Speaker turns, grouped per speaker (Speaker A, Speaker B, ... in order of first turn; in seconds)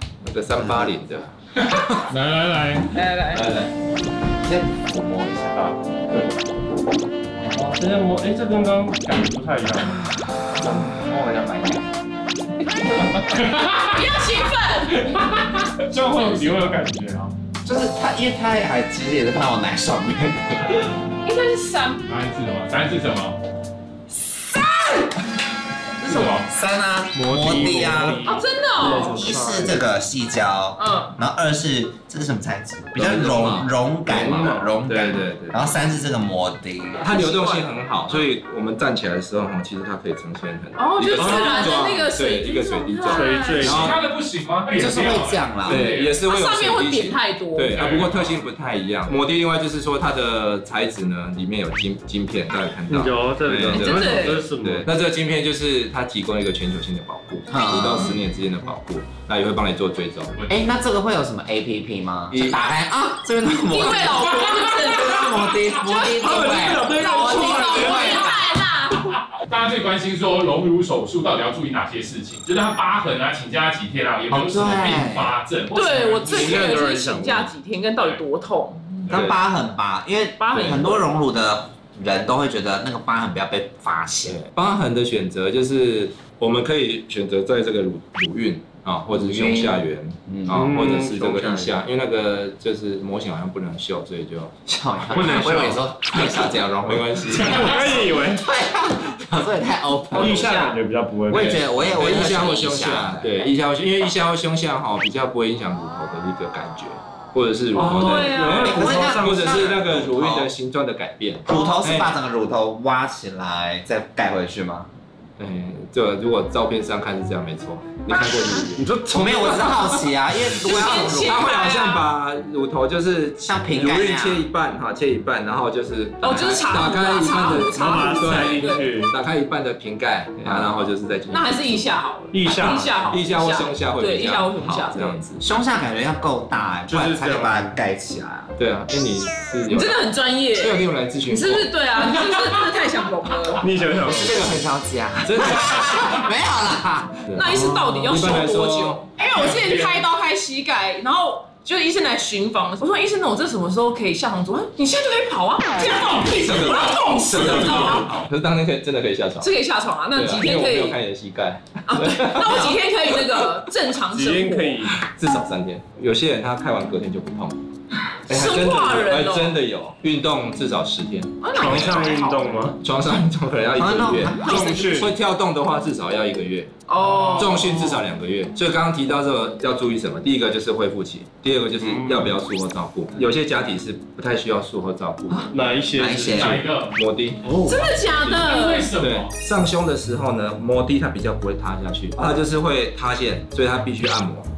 Speaker A: 0.2-1.3, 3.3-3.7, 4.7-6.3, 10.6-11.8, 33.0-35.6, 37.0-44.0, 45.6-60.3, 62.3-62.8, 79.1-79.4, 80.5-80.8, 84.3-94.5, 95.1-98.1, 101.8-112.1, 115.4-118.9, 120.5-131.9, 133.1-135.4, 138.6-141.7, 144.2-144.6, 145.2-146.3, 147.3-149.0, 156.3-159.5, 160.1-163.5, 165.0-167.6, 168.3-172.0, 172.8-176.7, 177.4-185.6, 186.4-187.5, 189.0-194.5
Speaker B: 0.6-0.9, 4.5-5.0, 17.6-20.9, 24.3-25.1, 26.1-28.3, 28.8-37.2, 44.8-45.9, 57.5-58.2, 60.5-68.4, 74.3-75.3, 79.1-84.4, 89.1-90.7, 94.7-97.0, 98.3-100.8, 101.3-103.4, 108.6-110.5, 111.5-114.9, 119.1-121.5, 123.5-124.5, 135.4-138.6, 144.1-147.3, 162.4-162.8, 173.8-175.0, 185.9-186.6
Speaker C: 1.6-3.0, 13.1-14.1, 15.0-16.6, 22.1-23.4, 26.0-26.5, 43.6-46.2, 47.7-48.4, 60.4-60.6, 69.4-76.8, 149.3-150.1, 156.9-157.9, 186.3-187.0, 188.0-189.3
Speaker D: 2.9-3.5, 13.9-15.2, 21.2-22.1, 28.2-29.4, 30.8-31.1, 37.1-38.2, 40.8-43.8, 46.3-47.7, 53.7-54.4, 63.6-69.1, 75.7-79.1, 80.4-81.0, 107.9-108.8, 111.5-111.8, 120.6-122.1, 126.2-128.9, 130.4-135.2, 139.7-143.7, 147.3-158.2, 159.4-161.0, 161.9-165.0, 168.3-169.6, 171.4-172.6, 174.5-174.9, 176.9-178.0, 187.6-188.9
Speaker E: 7.5-10.0, 15.7-17.3, 27.1-29.8, 34.1-34.7, 41.2-41.8, 43.1-43.9, 52.9-54.9, 66.2-68.4, 76.2-77.5, 90.5-91.8, 95.1-95.8, 97.3-98.5, 100.1-101.8, 107.7-109.9, 118.7-119.9, 127.5-129.2, 132.3-133.2, 136.9-137.8, 143.6-144.6, 147.5-147.9, 164.1-165.1, 171.5-172.8, 174.4-175.1, 181.8-182.4, 185.5-186.7, 187.4-188.0